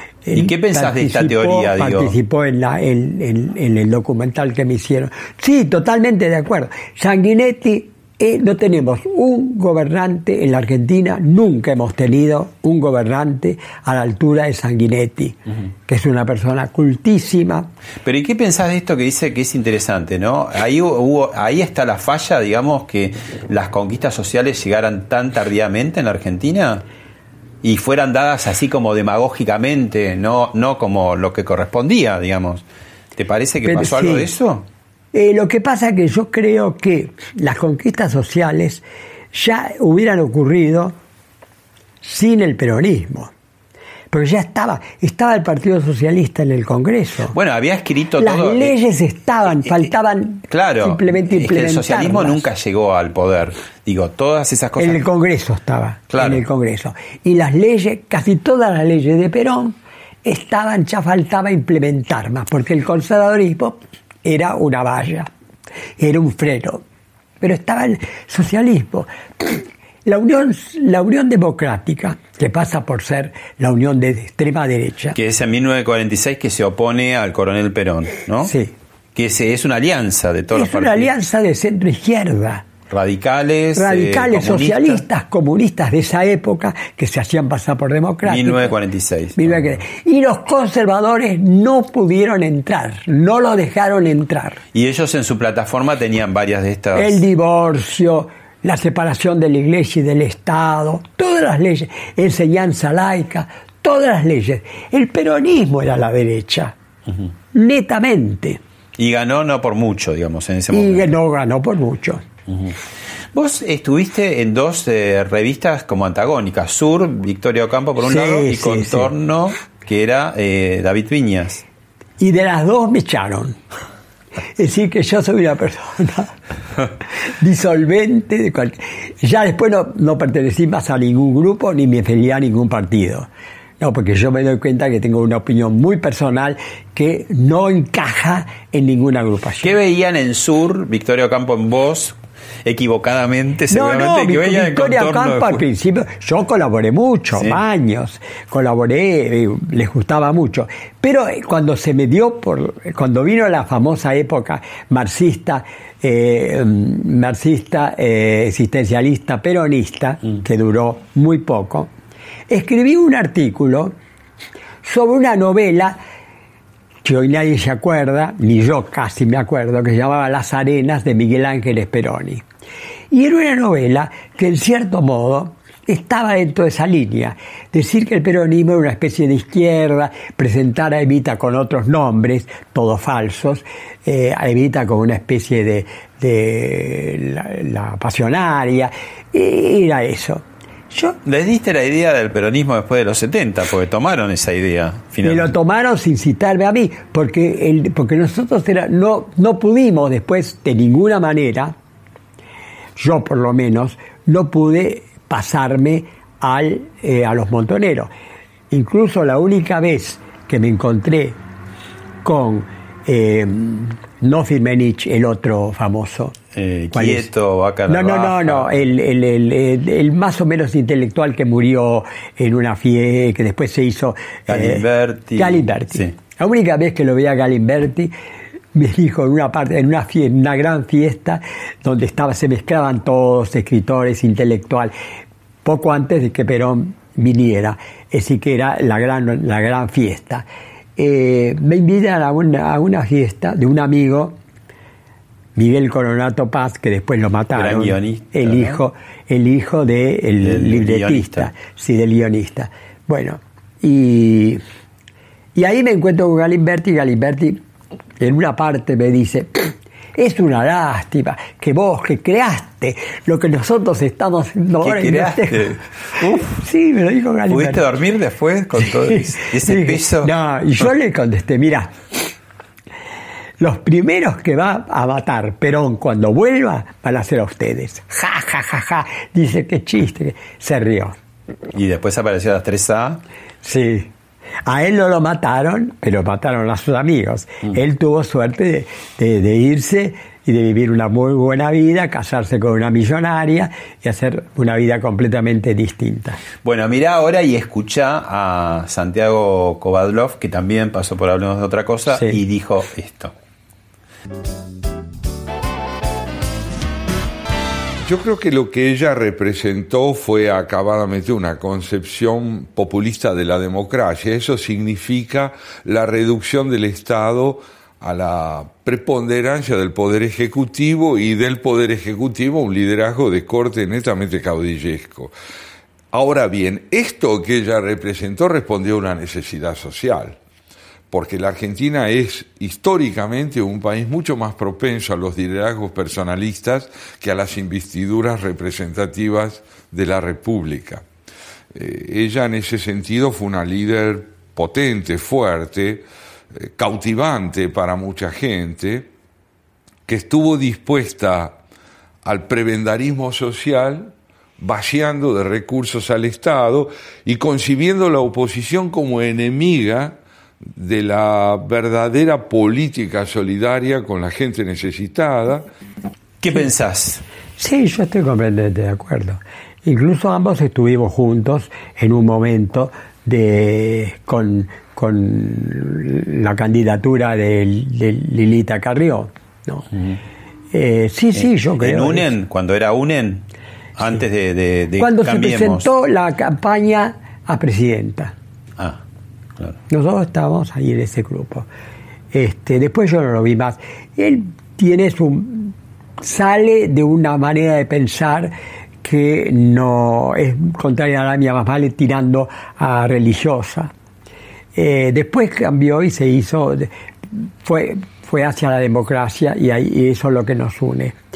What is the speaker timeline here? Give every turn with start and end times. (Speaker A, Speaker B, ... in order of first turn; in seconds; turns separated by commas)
Speaker A: 0.2-17.7, Speaker B: 0.3-2.1, Speaker B: 18.0-26.8, Speaker B: 27.6-32.6, Speaker B: 33.2-34.7, Speaker A: 33.6-34.3, Speaker A: 35.1-41.0, Speaker A: 42.0-43.3, Speaker A: 44.1-47.4, Speaker B: 47.3-48.8, Speaker A: 48.2-52.5, Speaker B: 49.6-49.9, Speaker B: 50.5-55.0, Speaker A: 54.8-65.3, Speaker B: 56.1-56.4, Speaker A: 66.0-66.8, Speaker A: 67.4-75.2, Speaker B: 75.2-78.5, Speaker A: 78.4-78.7, Speaker B: 79.2-81.1, Speaker A: 80.5-82.6, Speaker B: 82.9-85.0, Speaker A: 83.8-88.8, Speaker B: 88.2-89.8, Speaker A: 89.4-94.6, Speaker B: 94.7-97.2, Speaker A: 97.0-106.8, Speaker A: 107.5-108.6, Speaker B: 109.0-111.1, Speaker A: 110.7-112.2, Speaker B: 113.3-121.6, Speaker A: 118.0-119.1, Speaker A: 122.2-123.6, Speaker A: 124.5-126.3, Speaker A: 127.4-133.3, Speaker A: 133.8-139.8, Speaker B: 139.6-145.6, Speaker A: 143.7-161.9, Speaker B: 147.3-147.6, Speaker A: 162.5-163.9, Speaker A: 164.8-166.0, Speaker A: 167.0-172.4, Speaker A: 173.1-191.2, Speaker B: 191.2-195.6, Speaker A: 195.2-201.7, Speaker A: 203.0-208.1, Speaker A: 208.7-211.4, Speaker A: 212.2-216.4, Speaker B: 216.5-218.7, Speaker A: 216.9-217.3, Speaker A: 217.9-224.8, Speaker B: 224.5-226.2, Speaker A: 225.4-228.1, Speaker A: 228.7-234.9, Speaker A: 235.6-244.4, Speaker A: 245.6-254.6, Speaker B: 247.5-248.8, Speaker B: 250.4-251.5, Speaker A: 255.6-257.6, Speaker A: 258.2-267.9, Speaker B: 264.8-266.6, Speaker B: 267.5-270.3, Speaker A: 268.7-272.3, Speaker A: 273.6-281.2, Speaker B: 281.7-283.2, Speaker A: 283.6-284.1, Speaker A: 284.6-296.4, Speaker B: 296.6-303.3, Speaker A: 302.1-302.4, Speaker C: 308.0-325.3, Speaker C: 326.1-330.4, Speaker C: 331.1-341.0, Speaker C: 341.7-349.1, Speaker C: 350.1-351.6, Speaker C: 352.2-360.2, Speaker C: 360.8-365.7, Speaker B: 366.4-367.2, Speaker A: 367.6-379.9, Speaker A: 380.7-382.3, Speaker B: 381.3-383.4, Speaker B: 384.0-385.9, Speaker A: 385.0-388.3, Speaker A: 389.9-391.7, Speaker A: 392.3-403.9, Speaker A: 404.8-411.2